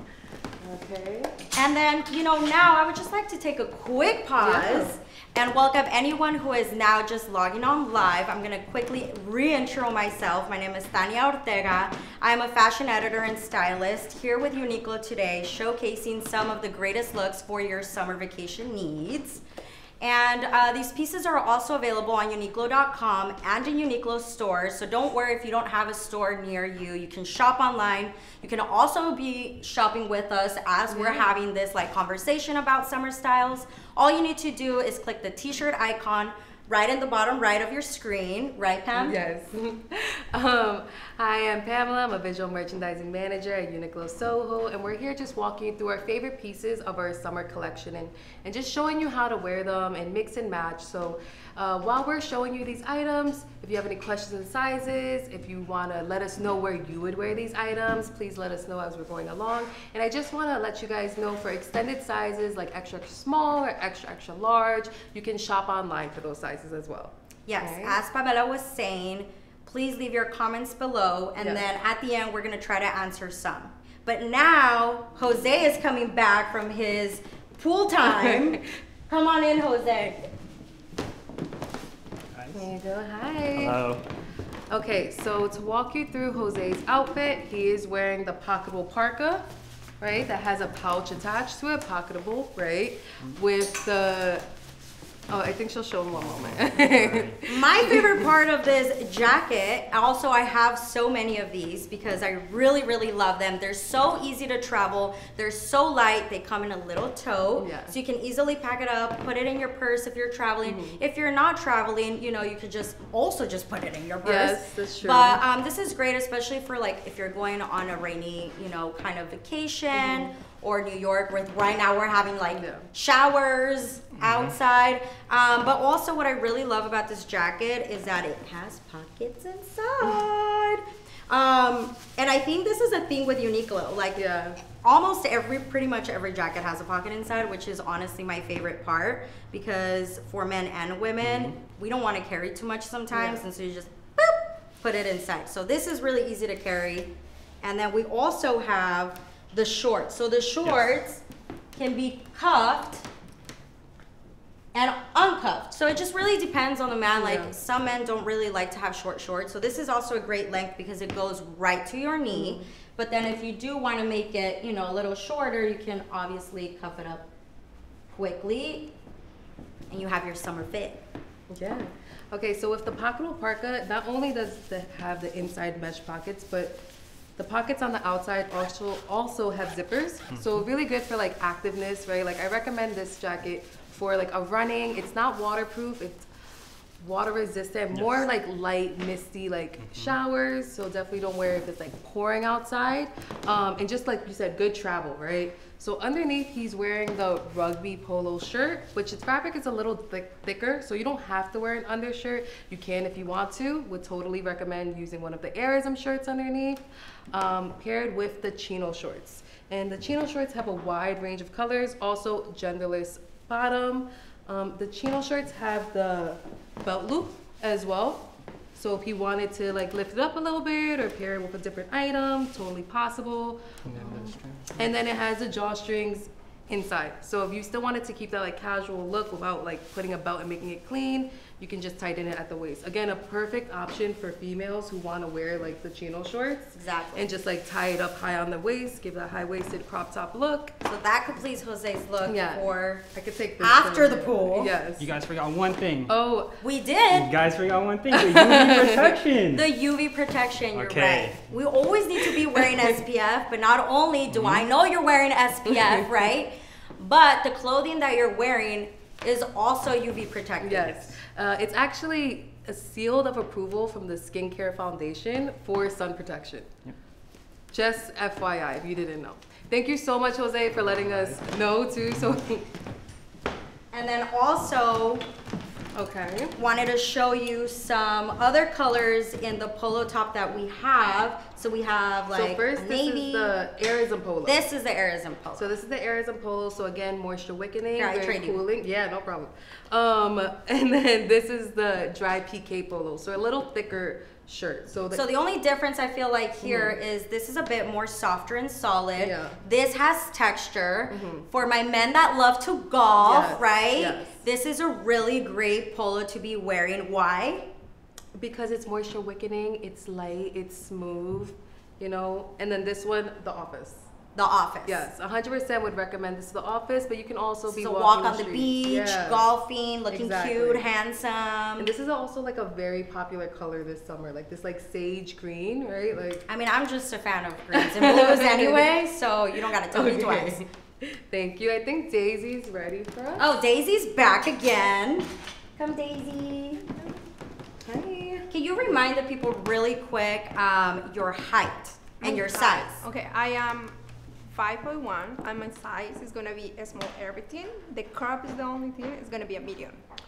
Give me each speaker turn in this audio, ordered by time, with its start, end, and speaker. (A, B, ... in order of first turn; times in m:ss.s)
0:00.6-0:01.3 A
0:01.5-0:19.4 B
0:04.4-0:05.0 A
0:20.0-0:39.2 B
0:30.9-0:31.3 A
0:39.0-1:08.0 A
1:07.5-1:20.3 B
1:11.4-1:11.6 A
1:18.0-1:18.6 A
1:22.3-1:22.6 C
1:22.5-1:23.8 A
1:23.5-1:24.0 C
1:24.7-1:29.5 A
1:30.0-1:34.5 A
1:35.3-1:38.3 A
1:36.2-1:37.4 C
1:37.4-2:27.1 B
1:47.6-1:47.9 A
1:50.6-1:51.0 A
1:54.2-1:55.4 A
1:59.9-2:00.3 A
2:02.5-2:02.9 A
2:04.2-2:04.5 C
2:14.2-2:14.6 A
2:21.2-2:21.5 C
2:23.1-2:23.4 A
2:27.6-2:31.2 B
2:31.7-2:33.0 B
2:34.7-2:47.3 B
2:37.1-2:37.5 A
2:42.3-2:42.6 A
2:48.1-2:48.9 B
2:49.9-2:51.0 B
2:51.5-2:56.8 A
2:57.4-3:06.3 A
3:07.0-4:00.7 A
3:07.9-3:08.2 C
3:09.8-3:10.1 C
3:43.8-3:44.7 C
3:56.7-3:57.2 B
4:00.8-4:03.1 B
4:02.2-4:05.1 A
4:03.6-4:04.7 B
4:05.0-4:06.2 C
4:06.1-4:06.6 A
4:06.6-4:07.3 B
4:07.1-4:09.6 C
4:08.1-4:09.2 A
4:09.5-4:21.1 B
4:10.7-4:11.4 C
4:12.5-4:12.9 A
4:14.3-4:14.6 C
4:15.7-4:16.1 A
4:20.6-4:26.7 A
4:27.7-4:32.7 A
4:31.0-4:31.4 C
4:33.9-4:35.2 B
4:35.9-4:36.6 A
4:36.6-4:43.5 B
4:42.3-4:44.6 A
4:44.4-4:45.7 B
4:45.6-4:55.3 A
4:48.0-4:48.6 B
4:55.1-5:07.7 B
4:56.6-4:57.0 A
4:59.2-4:59.6 A
5:01.1-5:01.5 A
5:03.2-5:04.4 A
5:08.4-5:14.1 A
5:14.3-5:15.1 B
5:14.8-5:19.4 A
5:17.7-5:21.9 B
5:20.1-5:20.8 A
5:21.8-5:26.4 A
5:26.5-5:30.6 B
5:27.7-5:28.9 A
5:29.7-5:33.5 A
5:33.4-5:36.9 B
5:37.8-5:38.5 A
5:38.5-5:43.0 B
5:42.2-5:42.9 A
5:42.2-5:44.0 D
5:44.5-5:50.0 D